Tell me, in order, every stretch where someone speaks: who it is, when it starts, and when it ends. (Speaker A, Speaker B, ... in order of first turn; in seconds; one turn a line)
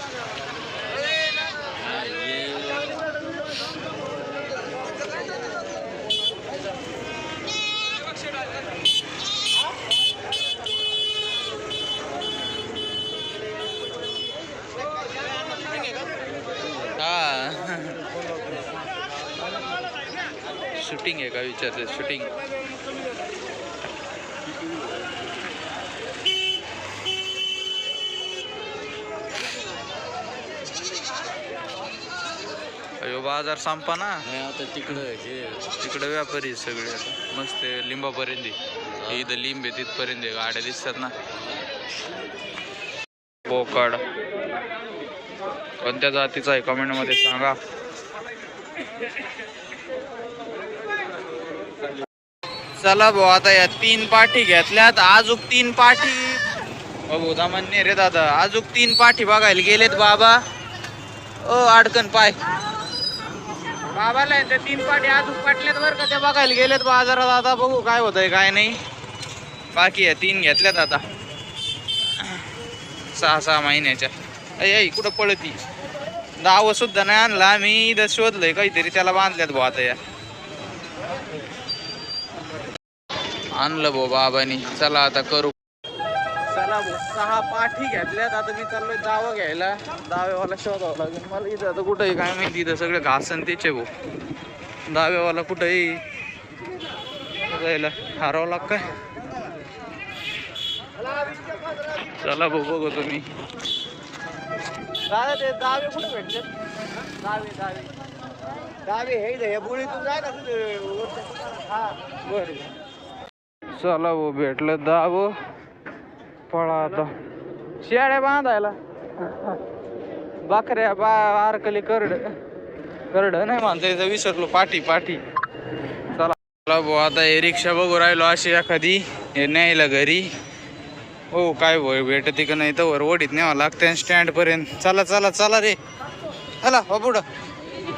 Speaker A: 1.8-3.0
Speaker B: 17.0-18.0
Speaker B: 20.8-22.3
Speaker A: 24.5-25.0
Speaker B: 33.0-34.2
Speaker A: 34.2-35.7
Speaker B: 35.8-41.1
Speaker A: 39.0-39.3
Speaker B: 43.5-44.0
Speaker B: 45.8-47.5
Speaker B: 52.8-56.4
Speaker B: 57.1-60.4
Speaker B: 61.4-62.4
Speaker B: 63.9-68.8
Speaker B: 69.7-71.0
Speaker B: 72.2-72.5
Speaker B: 73.1-75.6
Speaker B: 76.4-80.0
Speaker B: 83.6-85.5
Speaker B: 86.5-93.9
Speaker B: 94.9-96.0
Speaker B: 97.5-98.9
Speaker B: 102.0-103.2
Speaker B: 105.1-106.5
Speaker B: 107.2-107.9
Speaker B: 108.9-111.2
Speaker B: 112.1-112.7
Speaker B: 113.8-115.3
Speaker B: 116.5-117.1
Speaker B: 117.8-119.6
Speaker B: 120.5-122.3
Speaker B: 123.1-125.2
Speaker B: 126.1-130.3
Speaker B: 131.3-135.8
Speaker B: 136.6-137.2